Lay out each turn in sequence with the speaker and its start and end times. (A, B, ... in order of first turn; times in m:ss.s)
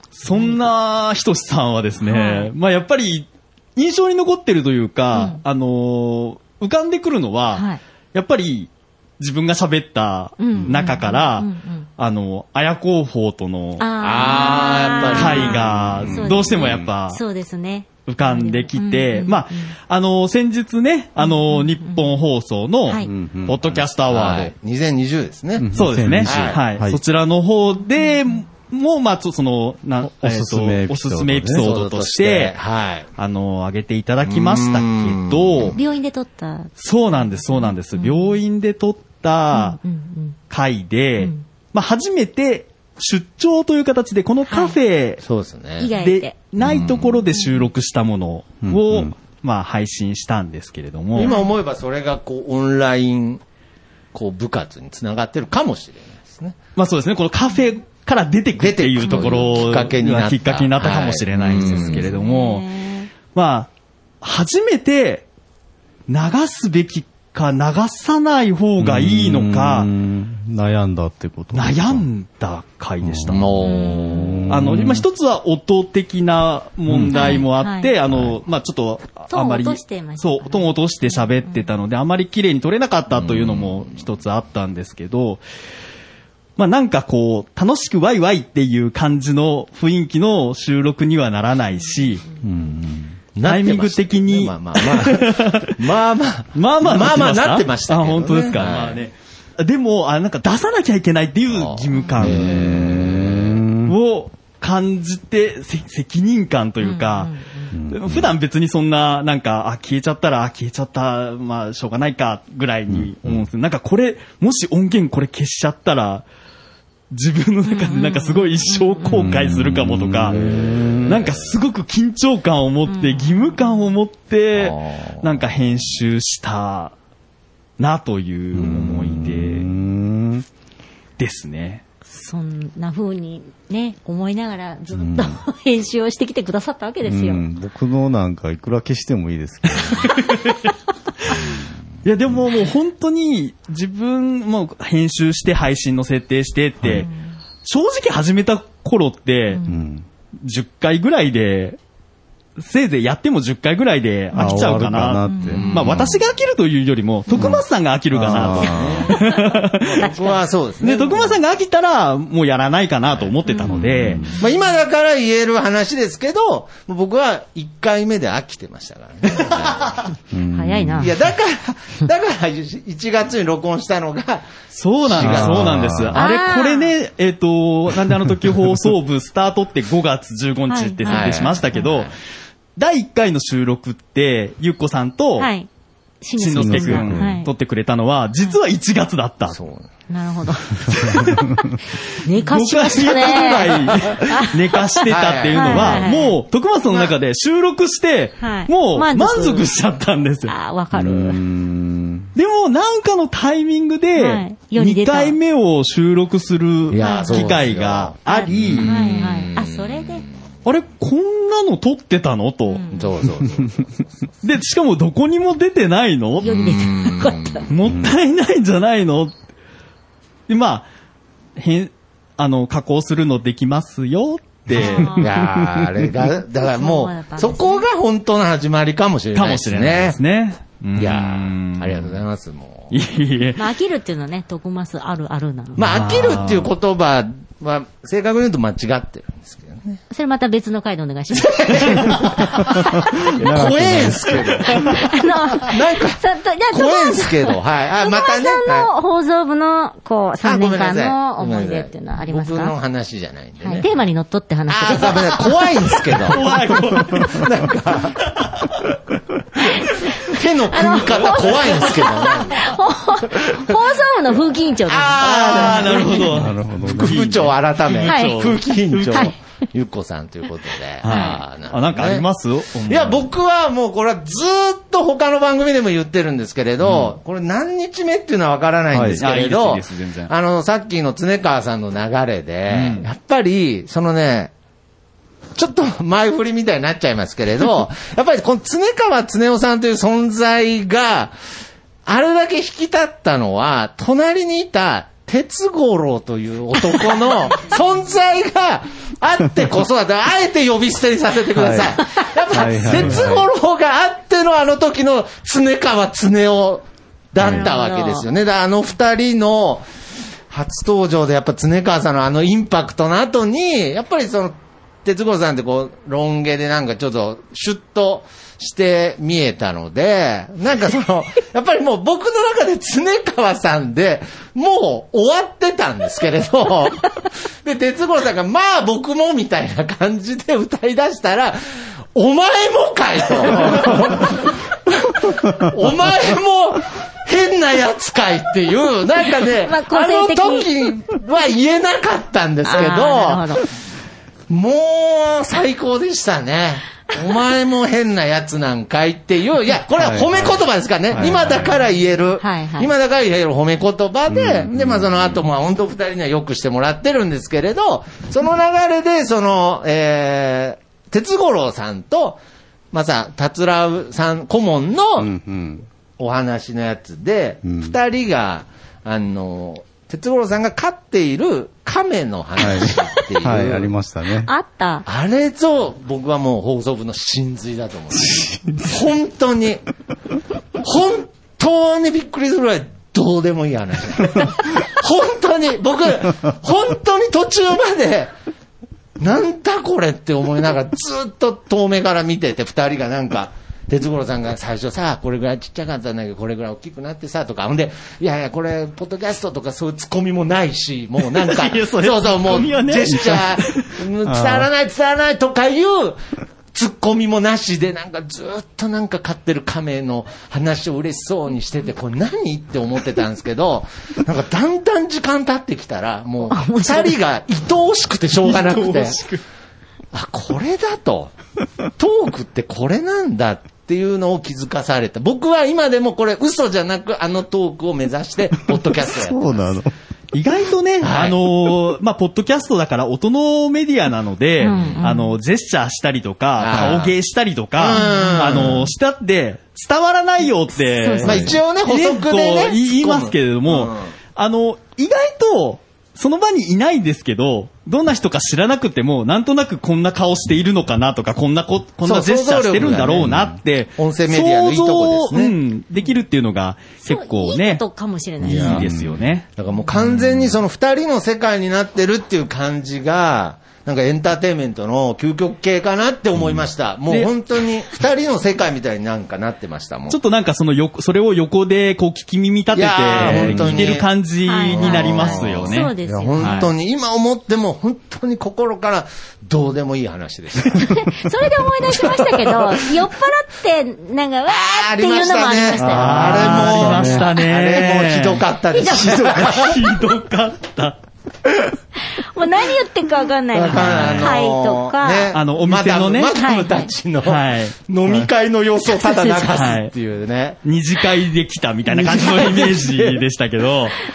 0:00.2-0:17.2 A
0:00.3-0:00.6 B
0:02.0-0:02.5 B
0:05.1-0:05.4 B
0:07.5-0:07.8 B
0:10.4-0:11.9 B
0:13.8-0:19.7 B
0:14.0-0:15.8 C
0:15.8-0:16.9 D
0:18.1-0:24.5 A
0:21.2-0:22.2 B
0:23.0-0:23.9 D
0:24.1-0:25.7 C
0:25.6-0:27.0 D
0:25.7-0:32.5 A
0:26.2-0:26.6 C
0:30.0-0:31.7 D
0:31.6-0:33.1 C
0:33.2-0:35.8 A
0:34.2-0:35.8 C
0:35.7-0:36.7 B
0:36.8-0:39.8 A
0:37.2-0:38.4 B
0:39.5-0:40.4 B
0:40.5-0:45.2 A
0:41.2-0:41.4 B
0:44.5-0:44.8 B
0:45.2-0:45.9 C
0:45.8-0:46.4 B
0:46.0-0:51.4 A
0:46.6-0:47.2 C
0:47.3-0:47.6 B
0:48.6-0:49.1 D
0:51.1-0:53.4 C
0:51.2-0:51.5 B
0:54.1-0:56.6 C
0:56.8-1:02.6 A
0:58.6-1:02.1 C
0:59.0-0:59.5 B
1:01.6-1:03.1 B
1:03.3-1:03.7 A
1:04.2-1:05.2 A
1:06.1-1:09.9 A
1:08.8-1:12.0 D
1:11.5-1:13.6 A
1:13.0-1:15.0 D
1:13.3-1:14.6 C
1:13.6-1:14.5 B
1:14.5-1:25.4 A
1:16.9-1:17.4 D
1:17.1-1:17.9 B
1:18.1-1:18.4 D
1:19.3-1:21.7 B
1:23.1-1:24.0 C
1:26.6-1:32.2 A
1:31.9-1:32.4 B
1:32.4-1:33.2 D
1:33.4-1:39.0 C
1:33.4-1:35.8 A
1:36.5-1:42.7 A
1:41.5-1:43.6 C
1:42.2-1:43.9 D
1:43.8-1:47.3 A
1:46.8-1:47.7 B
1:47.7-1:48.4 D
1:47.9-1:56.2 A
1:52.9-1:53.5 D
1:57.1-2:00.4 A
1:57.7-1:59.4 B
1:59.1-2:01.3 D
2:01.0-2:06.9 A
2:02.9-2:03.9 B
2:04.5-2:05.3 C
2:07.8-2:09.7 A
2:08.5-2:10.4 D
2:11.2-2:11.8 A
2:12.1-2:17.4 B
2:15.0-2:15.4 D
2:17.0-2:20.2 D
2:19.8-2:20.7 A
2:22.0-2:27.1 A
2:26.8-2:27.1 D
2:27.0-2:27.4 B
2:27.6-2:29.6 A
2:29.5-2:29.8 B
2:29.6-2:30.0 D
2:30.4-2:31.8 A
2:32.6-2:40.1 A
2:34.3-2:36.1 D
2:34.4-2:34.6 B
2:35.3-2:35.6 B
2:35.5-2:36.2 C
2:37.3-2:37.6 B
2:37.4-2:39.1 D
2:38.2-2:39.2 C
2:39.1-2:40.4 B
2:39.9-2:41.4 C
2:40.8-2:44.2 A
2:43.5-2:44.5 B
2:43.6-2:44.4 D
2:44.3-2:50.1 C
2:50.3-2:51.2 D
2:50.5-2:51.1 B
2:51.0-2:54.5 C
2:54.7-3:02.1 A
2:55.0-2:55.9 C
2:55.2-2:56.2 D
2:56.1-2:56.9 B
3:00.7-3:01.9 B
3:01.0-3:02.1 C
3:02.8-3:05.5 A
3:05.4-3:05.7 B
3:06.2-3:07.5 B
3:06.4-3:09.6 A
3:06.6-3:07.4 D
3:09.5-3:09.9 C
3:10.1-3:11.5 B
3:10.9-3:11.4 A
3:12.2-3:14.6 B
3:12.4-3:20.5 A
3:13.4-3:14.1 C
3:15.1-3:16.1 C
3:15.5-3:16.4 B
3:16.9-3:17.1 C
3:18.4-3:19.7 B
3:20.5-3:21.4 B
3:20.9-3:22.3 D
3:22.4-3:29.3 A
3:24.2-3:25.4 B
3:26.9-3:30.3 C
3:27.0-3:27.6 B
3:28.2-3:30.2 B
3:30.6-3:32.8 A
3:32.7-3:33.1 B
3:32.9-3:34.3 C
3:34.4-3:36.8 A
3:36.4-3:37.7 B
3:36.4-3:37.7 C
3:37.7-3:39.3 A
3:37.8-3:38.1 D
3:40.5-3:40.9 A
3:41.6-3:45.7 A
3:44.8-3:45.3 B
3:44.8-3:50.2 C
3:46.6-3:47.8 B
3:49.3-3:52.2 A
3:51.0-3:53.0 C
3:52.9-3:53.6 A
3:53.6-3:55.8 B
3:55.8-4:00.0 C
3:55.8-3:56.7 A
4:00.1-4:02.2 B
4:01.4-4:08.9 C
4:02.7-4:04.7 D
4:04.8-4:12.8 B
4:10.4-4:13.9 C
4:13.6-4:15.6 B
4:14.7-4:18.2 C
4:16.2-4:17.5 A
4:19.6-4:19.9 B
4:20.1-4:22.8 C
4:20.7-4:26.4 B
4:24.9-4:32.2 C
4:25.2-4:29.3 A
4:26.3-4:27.2 D
4:28.0-4:28.5 B
4:29.1-4:29.4 B
4:31.0-4:33.3 A
4:31.0-4:31.4 B
4:32.9-4:44.5 C
4:36.8-4:37.1 A
4:38.9-4:39.2 D
4:39.2-4:40.3 A
4:42.7-4:43.1 A
4:45.6-4:51.4 C
4:52.0-5:09.9 C
5:01.5-5:02.0 D
5:02.5-5:03.5 D
5:07.4-5:08.3 B
5:10.5-5:43.6 C
5:39.6-5:40.7 B
5:42.6-5:43.6 B
5:44.5-6:02.4 C
5:50.0-5:50.6 D
5:51.1-5:51.6 D
5:52.4-5:52.9 B
5:54.3-5:55.2 D
6:02.9-6:05.3 C
6:05.2-6:05.9 D
6:06.2-6:13.9 C
6:07.6-6:08.0 D
6:12.6-6:14.5 D
6:14.4-6:15.1 B
6:15.1-6:19.8 C
6:18.2-6:18.8 D
6:20.8-6:28.3 C
6:29.2-6:46.2 C
6:41.3-6:43.9 A
6:44.2-6:44.7 D
6:46.7-6:59.2 C
6:56.5-6:57.2 B
6:58.4-6:59.4 A
7:00.1-7:01.3 C
7:02.0-7:09.7 C
7:09.1-7:09.9 D
7:10.3-7:37.8 A
7:11.0-7:11.4 C
7:14.6-7:15.4 B
7:14.7-7:15.0 C
7:16.6-7:17.1 C
7:17.8-7:18.9 C
7:17.9-7:18.3 B
7:20.8-7:21.5 B
7:21.2-7:24.1 C
7:32.0-7:33.4 C
7:33.3-7:33.6 D
7:34.0-7:35.6 C
7:37.0-7:38.8 B
7:38.4-7:39.4 A
7:38.4-7:39.2 D
7:38.6-7:38.8 C
7:39.6-7:50.2 C
7:46.4-7:46.6 D
7:50.1-7:56.7 A
7:52.7-7:54.1 C
7:53.2-7:53.8 D
7:54.4-7:56.7 B
7:54.7-8:01.3 C
8:00.7-8:07.4 B
8:01.8-8:02.9 C
8:04.5-8:09.9 C
8:05.8-8:08.4 A
8:06.0-8:07.2 D
8:08.7-8:09.7 B
8:09.0-8:11.0 A
8:12.1-8:15.4 B
8:13.5-8:20.6 C
8:13.7-8:14.4 A
8:15.3-8:16.4 A
8:16.4-8:16.9 B
8:17.2-8:18.3 A
8:18.9-8:19.7 B
8:19.5-8:19.9 A
8:20.6-8:24.0 A
8:21.9-8:23.2 C